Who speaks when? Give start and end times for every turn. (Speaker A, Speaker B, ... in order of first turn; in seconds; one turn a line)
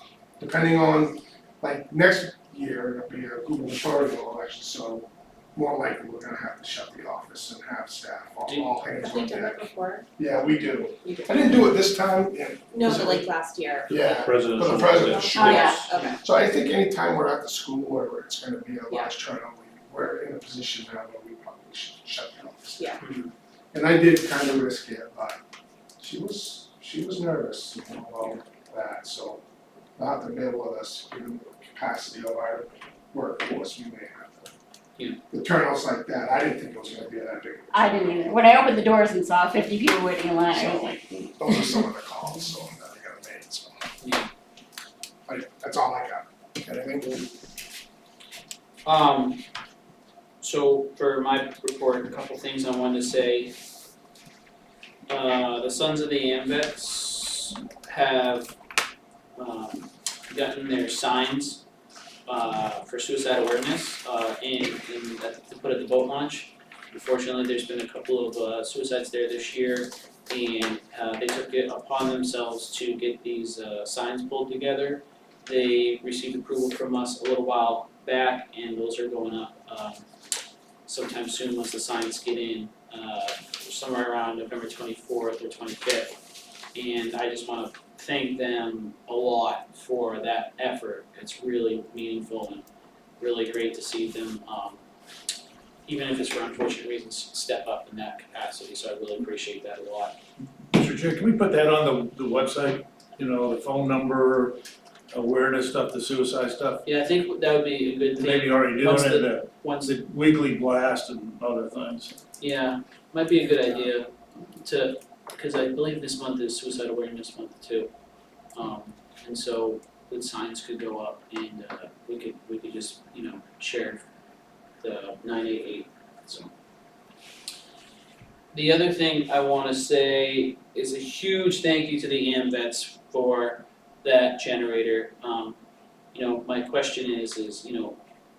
Speaker A: 0.4-13.3
Speaker B: 8.5-8.8
Speaker C: 9.0-10.1
Speaker C: 11.1-11.6
Speaker C: 12.7-14.0
Speaker A: 13.9-22.9
Speaker D: 13.9-15.9
Speaker C: 15.1-16.2
Speaker E: 15.4-15.8
Speaker B: 15.9-16.2
Speaker B: 23.0-23.3
Speaker A: 23.7-25.4
Speaker A: 26.0-29.4
Speaker A: 30.0-34.5
Speaker A: 35.3-38.4
Speaker E: 37.7-41.9
Speaker A: 40.5-43.9
Speaker B: 44.0-44.3
Speaker A: 45.3-47.1
Speaker B: 48.9-49.4
Speaker B: 50.4-53.5
Speaker B: 55.1-58.5
Speaker B: 59.4-61.6
Speaker B: 62.3-80.0
Speaker B: 80.9-86.2
Speaker B: 86.8-92.7
Speaker B: 93.2-94.8
Speaker B: 95.9-100.2
Speaker D: 100.7-104.6
Speaker D: 105.1-106.8
Speaker B: 106.8-110.0
Speaker D: 108.2-112.2
Speaker B: 112.4-117.9
Speaker B: 118.5-124.0
Speaker B: 124.8-126.5
Speaker B: 128.5-135.6
Speaker B: 136.1-138.0